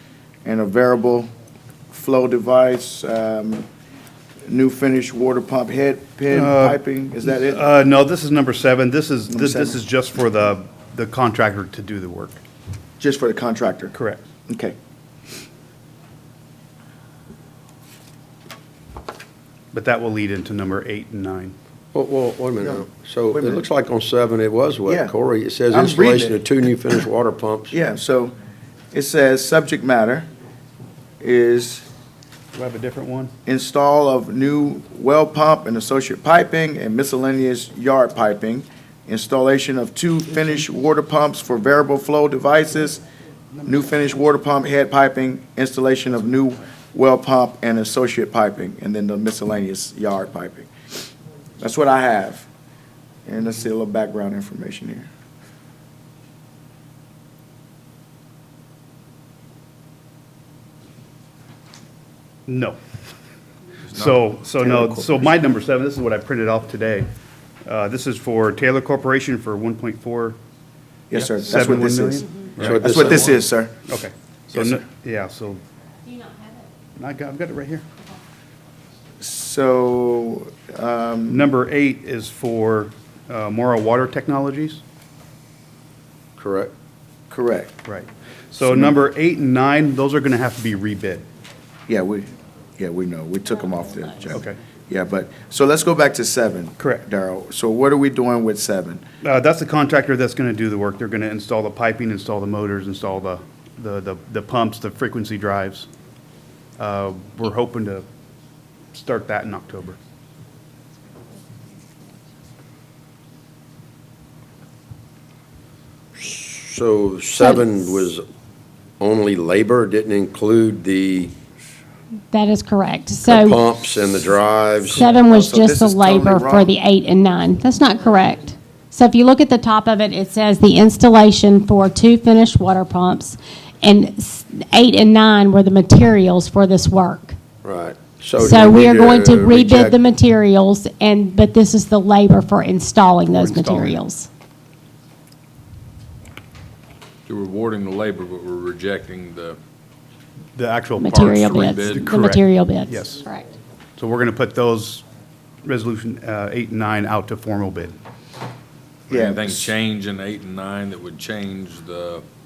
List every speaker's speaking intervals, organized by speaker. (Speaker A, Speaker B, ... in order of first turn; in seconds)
Speaker A: 0.4-1.3, 1.9-3.7, 4.5-7.6, 9.3-9.8, 13.0-14.0, 14.5-14.8, 22.6-23.7, 24.9-25.1, 25.7-26.4, 27.7-28.4, 28.9-30.3, 31.2-31.9, 33.5-43.0, 43.6-50.7, 51.6-52.5, 53.3-55.1, 64.6-65.1, 71.1-73.8, 79.2-81.4, 87.3-87.8, 88.7-89.0, 91.9-99.0, 125.1-126.7, 159.1-159.7
Speaker B: 6.3-6.8, 7.3-12.4, 13.9-14.2, 19.7-21.5, 32.5-33.3, 62.5-62.8, 64.0-67.1, 67.7-70.4, 71.1-75.6, 77.0-77.9, 81.3-84.8, 87.8-91.2, 94.3-94.6, 96.8-97.0, 99.2-105.9, 106.8-108.0, 108.9-110.0, 143.3-144.0, 150.6-151.3, 151.9-153.2, 154.0-155.0, 155.7-157.9
Speaker C: 21.9-27.8, 72.6-73.4, 86.4-86.7, 116.2-118.2, 119.0-121.3, 123.2-125.1, 137.6-140.0
Speaker D: 63.9-64.3, 147.3-149.6, 151.2-152.1, 159.1-162.2
Speaker E: 117.4-118.0, 122.3-123.7, 124.9-137.4, 138.4-144.3, 151.0-153.5